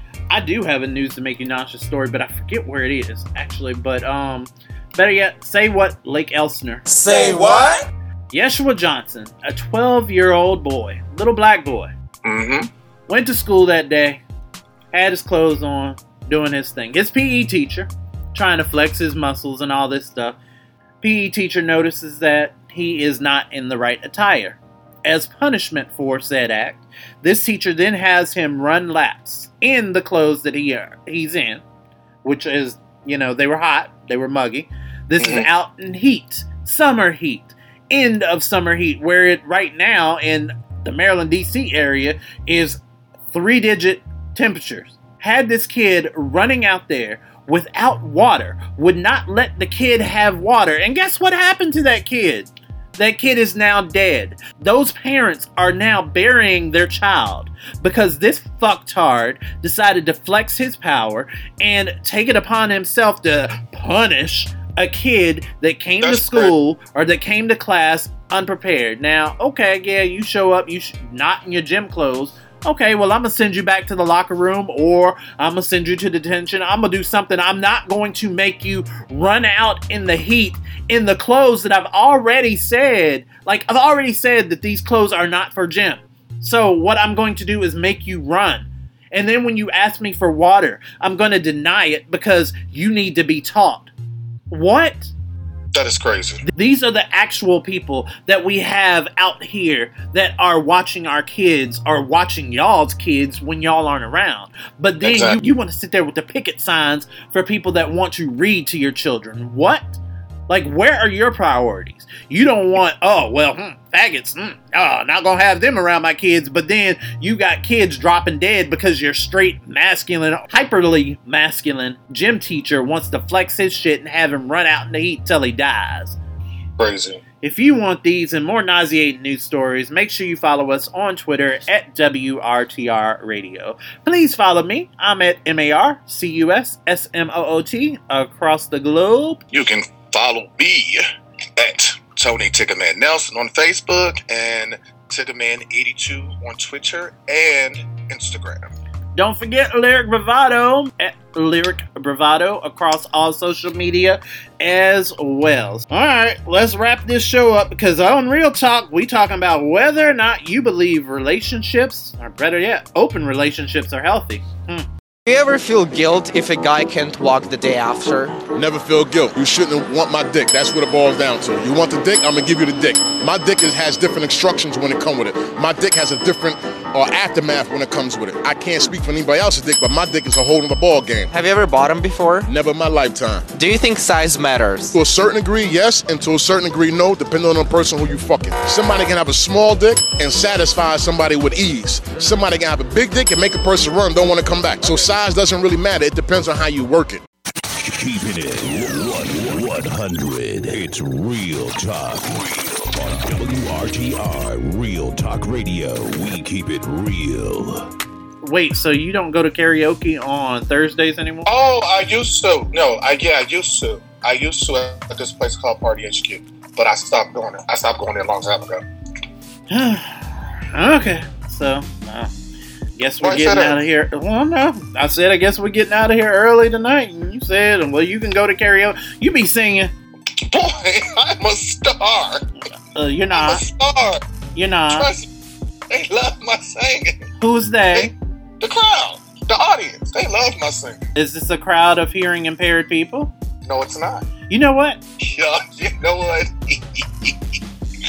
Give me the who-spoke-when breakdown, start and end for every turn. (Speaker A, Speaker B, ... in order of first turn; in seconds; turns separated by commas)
Speaker A: 0.3-7.6, Speaker A: 8.3-11.9, Speaker B: 12.2-12.7, Speaker A: 13.1-14.2, Speaker A: 14.9-20.4, Speaker A: 21.0-31.6, Speaker A: 32.2-42.8, Speaker B: 35.2-35.5, Speaker A: 43.3-93.9, Speaker B: 66.0-66.5, Speaker A: 94.5-95.1, Speaker B: 95.7-96.4, Speaker A: 96.5-110.0, Speaker B: 105.0-105.4, Speaker A: 110.5-126.2, Speaker B: 126.8-127.2, Speaker A: 127.4-139.4, Speaker B: 139.5-141.0, Speaker B: 141.6-148.7, Speaker A: 149.2-164.9, Speaker C: 165.3-168.4, Speaker D: 168.5-181.3, Speaker C: 181.3-182.5, Speaker D: 182.5-183.5, Speaker C: 183.5-184.9, Speaker D: 184.9-197.2, Speaker E: 197.8-207.9, Speaker A: 208.4-211.5, Speaker B: 211.5-218.8, Speaker A: 219.7-222.3, Speaker A: 223.0-229.9, Speaker B: 223.2-223.8, Speaker B: 230.5-232.4, Speaker A: 232.9-233.6, Speaker B: 233.3-234.2, Speaker A: 234.6-235.1, Speaker B: 234.9-235.3, Speaker B: 235.9-237.2, Speaker A: 237.4-238.1, Speaker B: 237.9-241.1, Speaker A: 241.2-243.3, Speaker B: 243.6-244.2, Speaker A: 244.5-245.0, Speaker B: 245.2-247.4